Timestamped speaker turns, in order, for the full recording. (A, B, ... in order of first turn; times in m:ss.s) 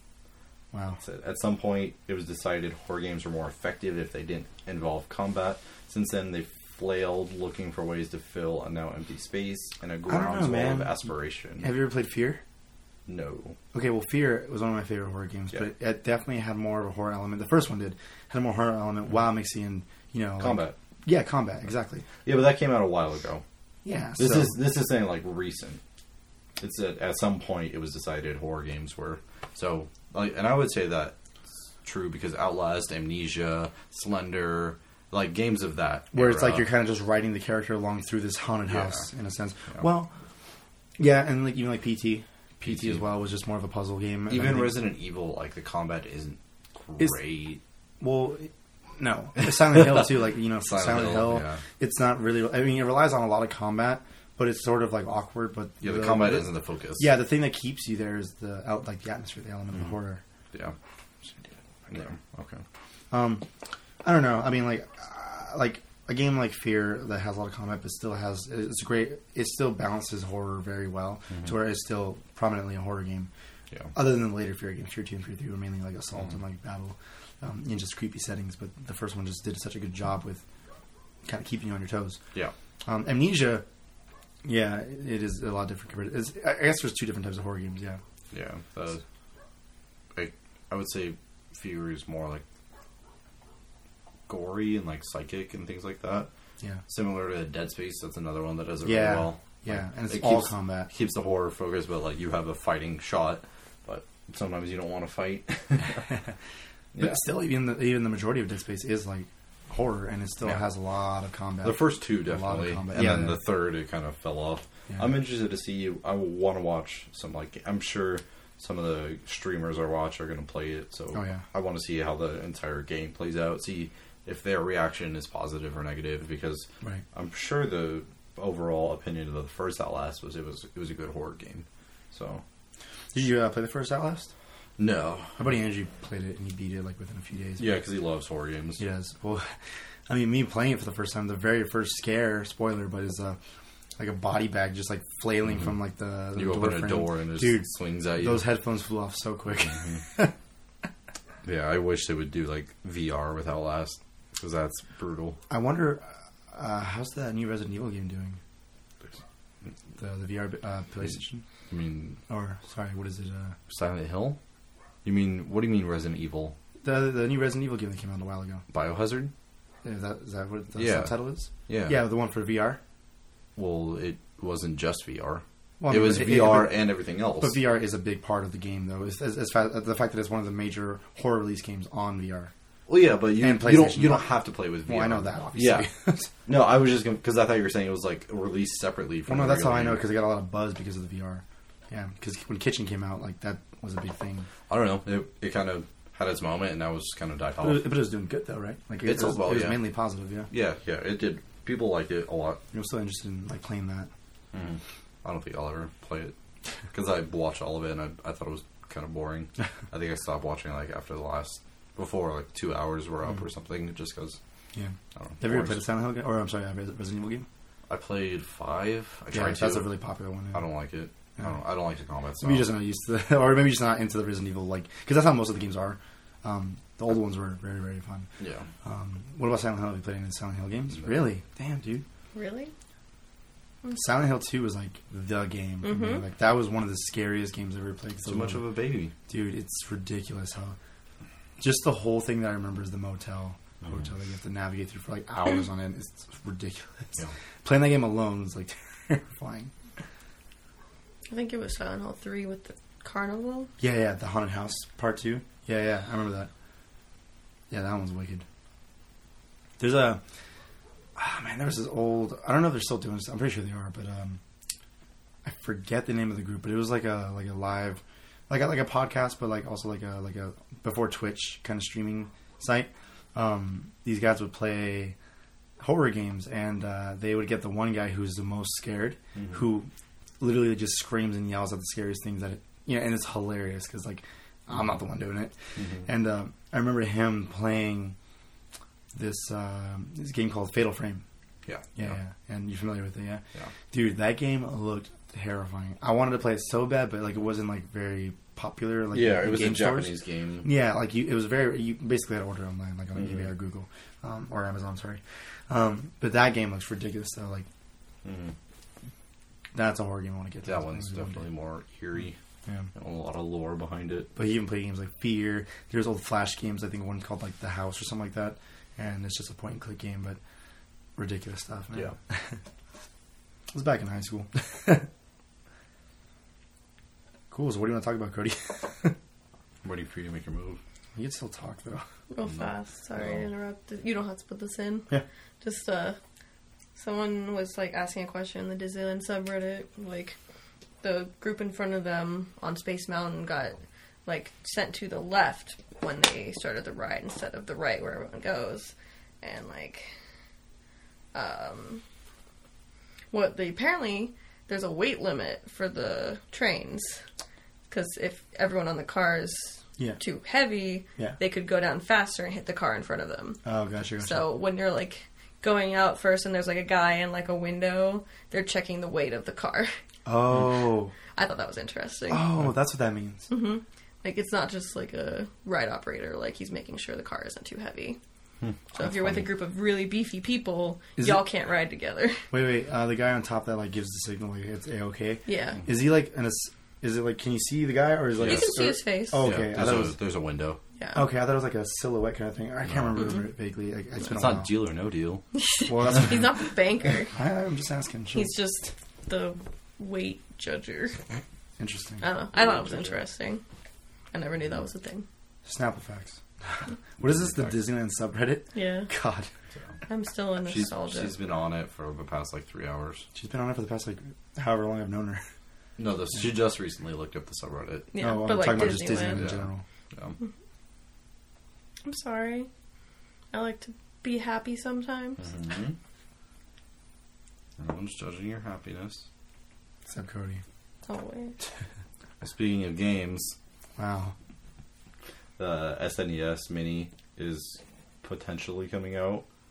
0:00.7-0:01.0 A
0:01.0-0:11.7 B
0:10.1-0:10.9 A
0:11.6-0:12.4 A
0:13.1-0:13.6 B
0:13.7-0:22.0 A
0:20.4-0:20.8 B
0:22.2-0:23.4 B
0:23.8-0:24.6 A
0:24.2-0:25.8 B
0:26.6-0:31.1 B
0:31.8-0:36.7 B
0:36.1-0:40.1 A
0:38.7-0:39.1 B
0:41.0-0:44.8 A
0:42.6-0:43.0 B
0:44.3-0:47.6 B
0:48.0-1:00.2 A
0:49.7-0:50.1 B
0:50.6-0:51.6 B
0:55.8-0:57.1 B
1:01.9-1:02.6 B
1:03.1-1:03.4 A
1:04.0-1:13.3 A
1:13.9-1:20.4 A
1:21.2-1:22.2 A
1:22.8-1:23.6 A
1:24.4-1:28.0 A
1:28.3-1:29.0 B
1:30.1-1:32.4 B
1:34.3-1:36.3 B
1:36.9-1:46.1 B
1:38.8-1:40.9 A
1:46.9-1:47.2 B
1:47.0-1:53.4 A
1:51.6-2:12.4 B
2:01.1-2:01.4 A
2:13.1-2:14.3 A
2:14.8-2:15.4 B
2:15.4-2:17.8 A
2:17.6-2:18.8 B
2:18.8-2:19.5 A
2:20.1-2:23.4 A
2:24.0-2:30.3 A
2:26.3-2:28.5 B
2:29.7-2:30.0 B
2:31.4-2:35.4 B
2:35.5-2:38.4 A
2:40.0-2:41.4 A
2:41.7-2:42.2 B
2:42.3-2:43.6 A
2:43.7-2:44.4 B
2:45.0-2:46.6 B
2:46.8-2:48.6 A
2:48.7-2:49.3 B
2:49.8-2:52.8 A
2:50.8-2:51.2 B
2:51.7-2:52.0 B
2:53.6-2:57.6 B
2:55.8-3:02.5 A
3:02.9-3:05.9 B
3:03.4-3:04.3 A
3:04.9-3:06.3 A
3:06.4-3:10.1 B
3:09.3-3:14.5 A
3:14.7-3:17.9 B
3:17.6-3:20.5 A
3:19.0-3:19.8 B
3:20.5-3:22.6 B
3:22.7-3:24.1 A
3:24.5-3:26.3 B
3:26.9-3:34.4 B
3:34.7-3:37.4 A
3:35.2-3:35.8 B
3:37.9-3:39.9 B
3:39.3-3:40.6 A
3:40.5-3:42.7 B
3:42.4-3:48.3 A
3:48.4-3:48.7 B
3:48.8-3:52.0 A
3:52.3-3:52.7 C
3:53.9-3:58.6 A
3:55.8-3:56.2 C
3:58.2-3:59.1 B
3:59.2-4:00.8 A
4:01.6-4:09.7 A
4:11.3-4:13.7 C
4:13.8-4:16.5 A
4:17.7-4:18.4 A
4:19.8-4:20.2 A
4:21.2-4:24.4 A
4:25.4-4:35.2 A
4:35.8-4:39.9 A
4:40.4-4:48.1 A
4:45.8-4:46.1 B
4:49.1-4:51.2 A
4:51.6-4:52.2 B
4:52.0-5:07.7 A
4:59.1-5:00.7 B
5:03.2-5:03.4 B
5:08.2-5:08.5 B
5:09.7-5:11.4 A
5:10.6-5:12.4 B
5:12.9-5:14.3 B
5:14.4-5:20.4 A
5:21.2-5:22.6 A
5:23.7-5:25.1 A
5:27.5-5:29.1 A
5:29.8-5:30.8 B
5:31.1-5:32.0 A
5:32.3-5:36.2 C
5:32.4-5:33.4 B
5:37.0-5:40.4 C
5:41.0-5:50.1 C
5:51.3-5:52.0 C
5:53.3-5:57.2 C
5:57.9-6:03.6 C
6:03.6-6:04.4 A
6:04.2-6:09.9 C
6:10.2-6:11.1 A
6:11.3-6:12.4 C
6:12.3-6:13.5 A
6:13.5-6:18.2 C
6:18.9-6:22.4 C
6:19.0-6:19.4 A
6:21.2-6:21.4 A
6:22.5-6:30.2 A
6:25.5-6:25.8 C
6:28.4-6:28.7 B
6:28.4-6:29.5 C
6:29.4-6:30.8 B
6:31.0-6:31.3 C
6:31.1-6:34.7 A
6:32.8-6:33.2 B
6:34.2-6:35.4 B
6:35.5-6:37.3 C
6:35.9-6:36.6 A
6:37.3-6:38.5 A
6:38.3-6:41.2 C
6:41.8-6:42.2 A
6:42.2-6:43.6 C
6:42.5-6:43.2 B
6:44.3-6:45.2 C
6:45.6-6:49.5 A
6:47.3-6:47.7 B
6:48.7-6:49.1 C
6:50.1-6:51.3 C
6:50.6-6:53.3 B
6:53.3-6:55.4 A
6:56.0-6:58.1 B
6:58.1-6:59.5 C
6:58.2-6:59.8 A
6:59.2-7:00.4 B
7:02.0-7:02.7 C
7:03.5-7:05.5 C
7:05.4-7:06.0 B
7:07.8-7:09.2 B
7:10.1-7:10.6 A
7:11.0-7:11.5 C
7:12.4-7:13.5 B
7:14.0-7:14.3 A
7:15.6-7:19.4 B